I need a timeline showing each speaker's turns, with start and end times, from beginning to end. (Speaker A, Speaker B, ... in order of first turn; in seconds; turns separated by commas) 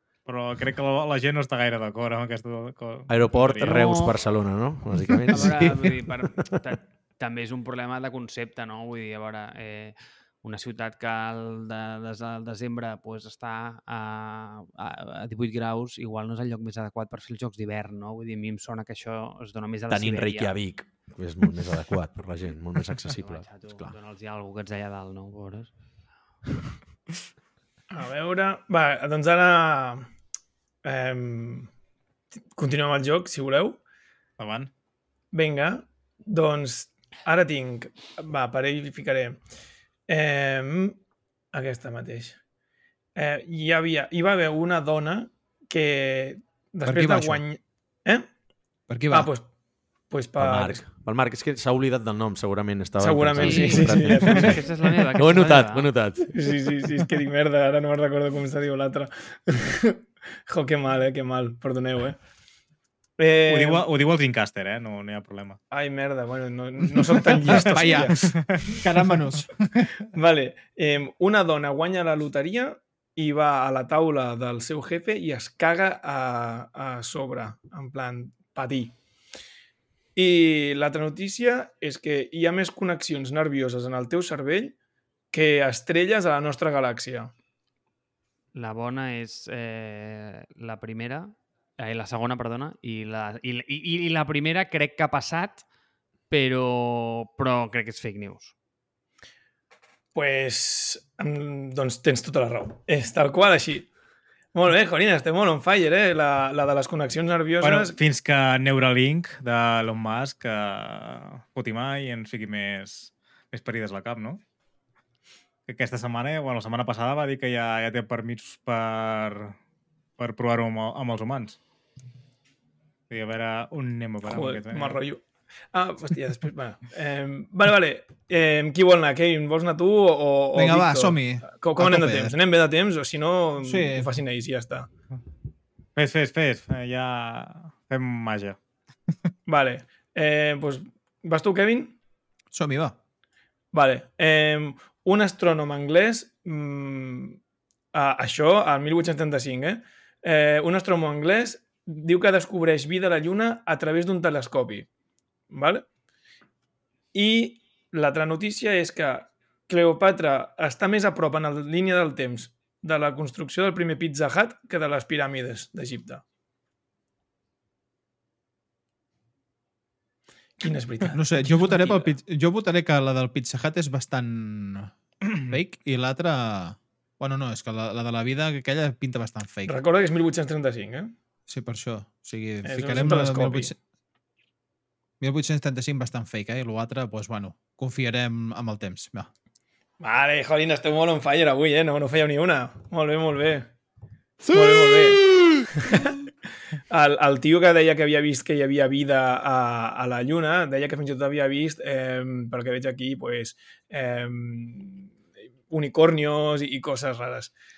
Speaker A: 0.3-3.8, Speaker B: 3.1-6.6, Speaker C: 3.6-4.2, Speaker C: 5.3-20.5, Speaker D: 5.3-6.0, Speaker B: 19.9-23.5, Speaker C: 23.1-25.7, Speaker E: 27.9-30.1, Speaker E: 30.8-31.7, Speaker E: 32.5-33.8, Speaker A: 34.4-34.7, Speaker E: 35.3-39.4, Speaker E: 40.1-41.0, Speaker E: 41.5-42.4, Speaker E: 43.1-48.3, Speaker D: 46.8-47.4, Speaker D: 48.9-49.3, Speaker E: 49.1-49.5, Speaker E: 50.1-50.9, Speaker B: 50.4-56.5, Speaker E: 53.0-54.7, Speaker C: 53.4-55.9, Speaker E: 56.3-62.2, Speaker E: 63.2-63.9, Speaker A: 63.5-65.6, Speaker E: 65.7-68.2, Speaker D: 67.4-68.2, Speaker A: 68.2-68.8, Speaker D: 68.8-69.9, Speaker E: 70.0-79.0, Speaker E: 80.2-84.8, Speaker E: 85.3-87.3, Speaker C: 88.5-95.6, Speaker C: 96.3-98.5, Speaker E: 100.1-103.9, Speaker E: 104.5-108.0, Speaker A: 107.6-114.4, Speaker A: 115.7-119.6, Speaker A: 120.2-121.6, Speaker A: 123.1-125.0, Speaker E: 124.2-134.9, Speaker D: 130.6-132.4, Speaker D: 133.6-134.1, Speaker A: 136.0-138.6, Speaker E: 139.5-142.0, Speaker D: 142.5-143.0, Speaker E: 143.7-147.4, Speaker E: 147.9-154.9, Speaker E: 155.5-155.8, Speaker E: 157.1-166.2, Speaker E: 170.6-172.0, Speaker D: 171.1-174.9, Speaker D: 175.4-179.8, Speaker E: 179.7-181.1, Speaker D: 181.5-183.8, Speaker E: 182.6-183.7, Speaker D: 185.2-189.3, Speaker E: 190.0-193.7, Speaker D: 194.4-195.6, Speaker E: 194.5-195.3, Speaker E: 195.8-196.2, Speaker E: 196.9-205.1, Speaker E: 205.7-207.5